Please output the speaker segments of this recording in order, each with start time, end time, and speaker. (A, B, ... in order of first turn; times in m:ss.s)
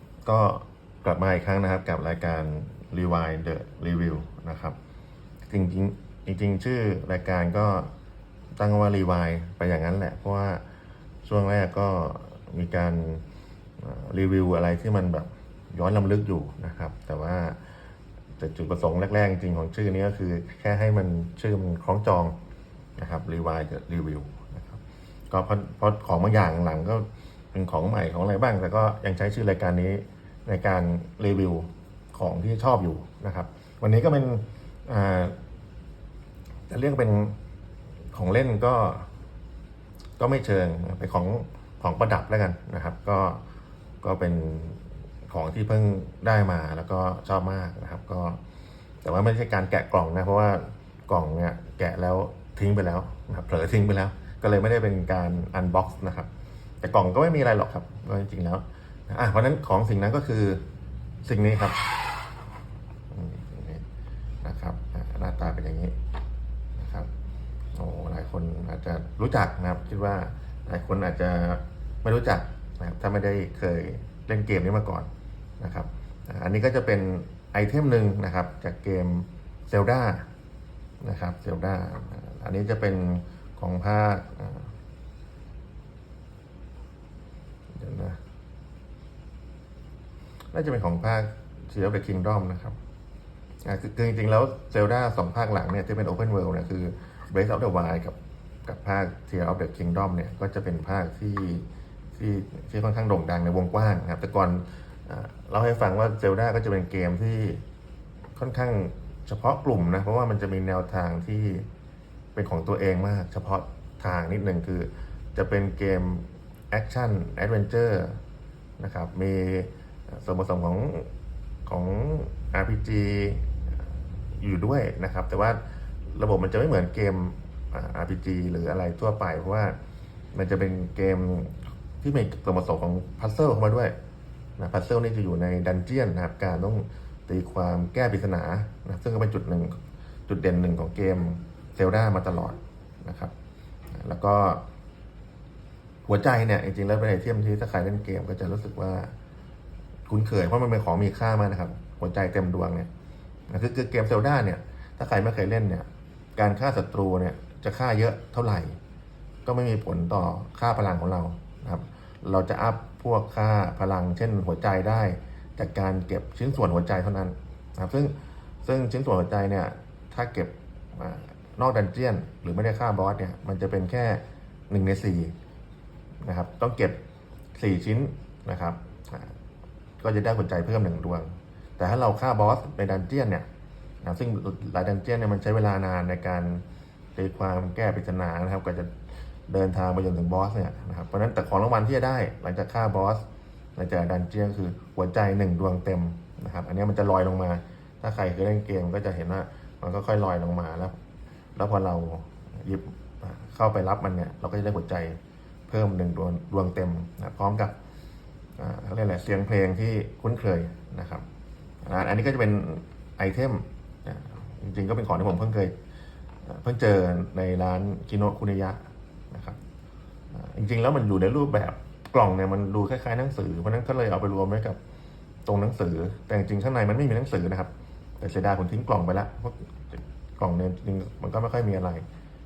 0:00.2-0:04.8 A
0:05.5-0:07.9 A
0:08.6-0:10.6 A
0:11.2-0:13.2 A
0:13.8-0:17.7 A
0:18.4-0:22.4 A
0:23.0-0:35.4 A
0:36.7-0:37.4 A
0:38.1-0:39.1 A
0:40.2-0:43.4 A
0:44.0-0:48.4 A
0:49.0-0:56.3 A
0:56.8-1:00.6 A
1:01.2-1:02.1 A
1:03.1-1:03.8 A
1:04.4-1:06.0 A
1:06.7-1:07.1 A
1:07.7-1:20.3 A
1:21.0-1:24.7 A
1:27.7-1:28.2 A
1:30.5-1:32.8 A
1:33.6-1:47.6 A
1:48.4-1:51.7 A
1:52.3-1:58.2 A
1:58.8-2:01.1 A
2:01.6-2:09.8 A
2:10.3-2:14.0 A
2:14.6-2:23.3 A
2:23.9-2:24.6 A
2:26.0-2:29.1 A
2:30.1-2:32.9 A
2:33.5-2:38.8 A
2:39.4-2:55.3 A
2:56.2-2:57.0 A
2:57.5-2:59.3 A
3:00.0-3:03.5 A
3:04.0-3:06.6 A
3:07.2-3:09.0 A
3:09.5-3:13.2 A
3:13.8-3:21.0 A
3:21.6-3:27.8 A
3:28.6-3:31.2 A
3:31.8-3:35.8 A
3:36.4-3:39.6 A
3:40.3-3:44.8 A
3:45.4-3:52.0 A